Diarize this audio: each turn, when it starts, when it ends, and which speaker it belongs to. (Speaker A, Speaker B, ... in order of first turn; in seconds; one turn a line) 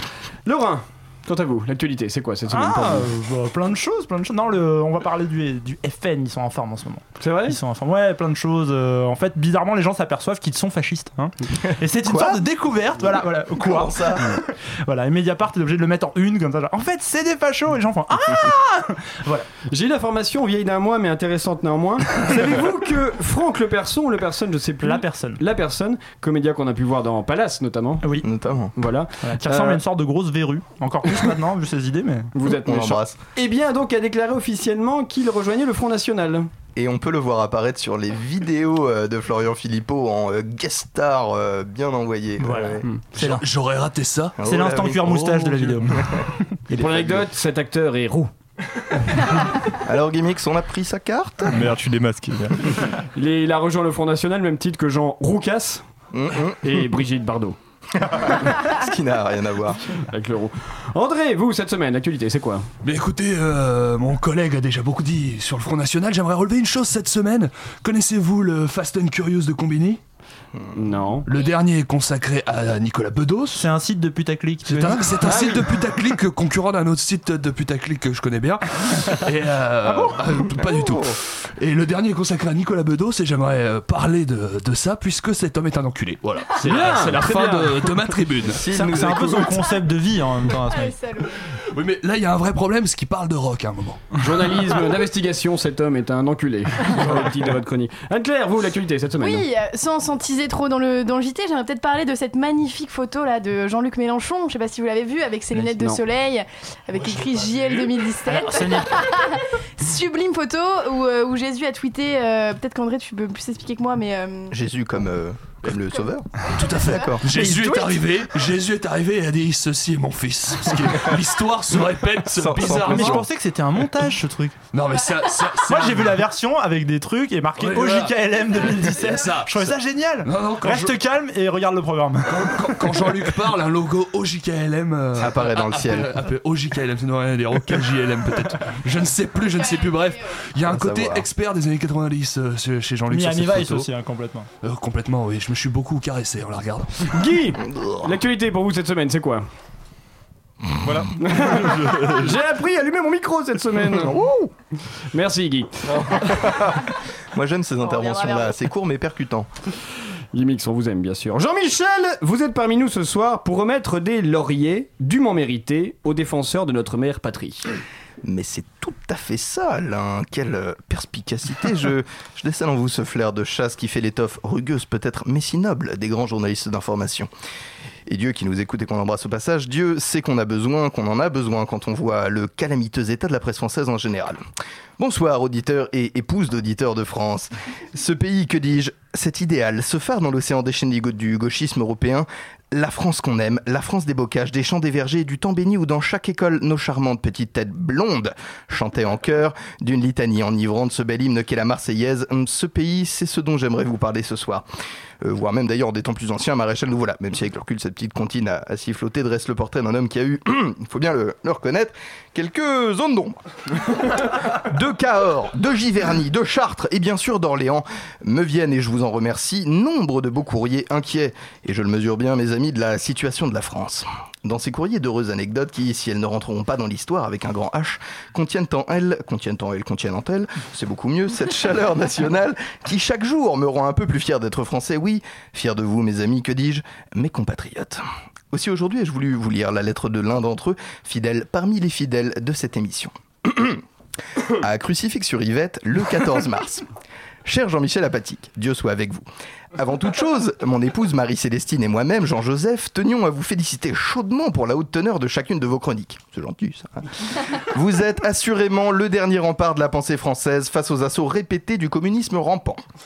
Speaker A: 0.5-3.1
Speaker B: 2.5-19.5
Speaker A: 7.2-7.6
Speaker C: 12.0-12.4
Speaker C: 13.6-14.3
Speaker A: 19.7-28.0
Speaker B: 24.8-25.4
Speaker C: 28.2-28.7
Speaker A: 28.8-29.8
Speaker B: 29.2-32.3
Speaker A: 32.3-36.5
Speaker C: 32.5-33.2
Speaker C: 36.8-42.8
Speaker B: 42.4-43.4
Speaker D: 43.1-45.9
Speaker C: 44.4-45.1
Speaker B: 44.4-46.8
Speaker C: 46.7-47.2
Speaker A: 46.7-48.3
Speaker C: 49.7-51.6
Speaker E: 51.5-52.8
Speaker A: 53.1-55.8
Speaker C: 56.1-56.6
Speaker A: 56.6-57.6
Speaker C: 58.0-59.8
Speaker A: 60.1-62.7
Speaker D: 62.8-70.0
Speaker A: 70.7-71.2
Speaker D: 71.2-73.6
Speaker B: 73.5-75.3
Speaker D: 74.7-88.6
Speaker A: 75.3-75.6
Speaker C: 80.6-81.2
Speaker A: 86.6-87.8
Speaker C: 88.6-89.7
Speaker B: 88.7-90.9
Speaker F: 90.7-91.5
Speaker D: 91.7-94.1
Speaker A: 94.2-99.5
Speaker F: 99.2-114.5
Speaker A: 105.5-106.0
Speaker D: 106.9-108.0
Speaker B: 108.2-109.2
Speaker C: 114.5-116.3
Speaker D: 116.5-123.2
Speaker C: 116.8-117.2
Speaker B: 117.3-117.8
Speaker C: 122.3-123.3
Speaker B: 122.6-124.6
Speaker D: 124.7-126.2
Speaker B: 125.6-133.1
Speaker D: 127.6-130.9
Speaker D: 132.3-143.9
Speaker C: 135.1-136.1
Speaker F: 139.5-140.4
Speaker C: 140.6-141.2
Speaker B: 143.1-144.5
Speaker D: 144.6-147.1
Speaker A: 147.1-149.4
Speaker C: 147.7-148.1
Speaker E: 150.8-152.3
Speaker A: 151.2-154.2
Speaker A: 155.1-156.3
Speaker C: 156.1-159.5
Speaker F: 157.8-158.6
Speaker A: 160.3-167.7
Speaker C: 168.2-177.3
Speaker C: 178.1-184.4
Speaker C: 185.0-204.6
Speaker C: 205.2-213.4
Speaker C: 214.1-243.8
Speaker C: 244.5-246.8
Speaker C: 247.4-257.0
Speaker C: 257.6-262.8